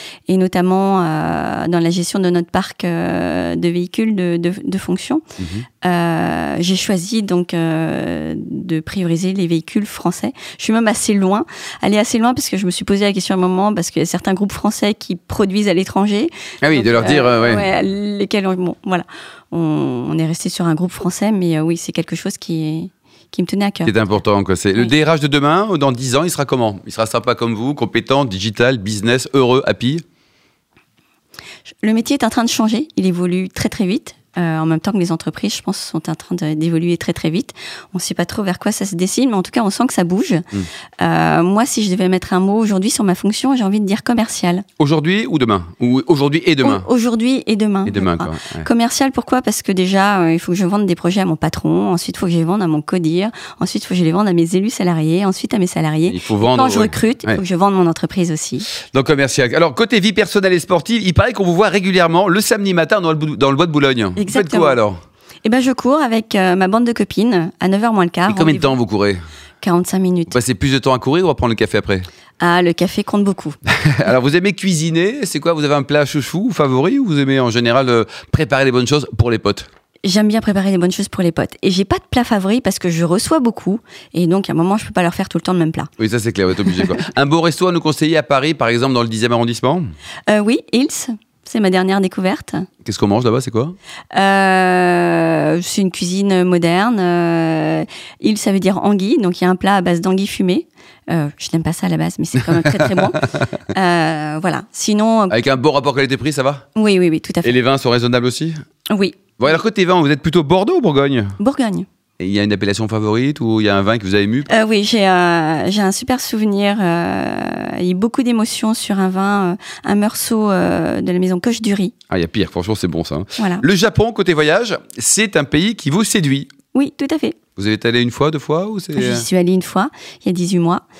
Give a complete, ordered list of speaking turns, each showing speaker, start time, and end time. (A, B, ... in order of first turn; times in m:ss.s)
0:00.3-0:05.2 A
0:05.4-0:05.6 B
0:05.8-0:23.9 A
0:16.6-0:17.7 B
0:23.8-0:30.0 B
0:31.7-0:40.4 A
0:41.0-0:44.6 A
0:44.8-0:46.9 B
0:46.6-0:58.7 A
0:47.8-0:48.7 B
0:56.1-0:57.4 B
0:58.9-1:05.0 B
1:04.2-1:04.8 A
1:05.4-1:08.8 A
1:08.3-1:09.2 B
1:09.6-1:10.4 A
1:10.3-1:12.1 B
1:12.4-1:13.6 A
1:13.7-1:19.7 B
1:20.0-1:25.9 A
1:26.0-1:29.9 B
1:30.3-1:32.7 A
1:32.8-1:33.8 B
1:34.1-1:45.4 A
1:42.6-1:43.1 B
1:45.3-1:46.6 B
1:46.8-1:47.6 A
1:47.4-1:48.6 B
1:48.9-1:49.2 A
1:49.4-1:51.4 B
1:51.4-1:51.8 A
1:52.2-1:54.5 B
1:54.5-2:01.9 A
2:02.1-2:06.5 B
2:03.4-2:03.6 A
2:06.7-2:07.4 A
2:07.6-2:09.3 B
2:08.9-2:10.8 A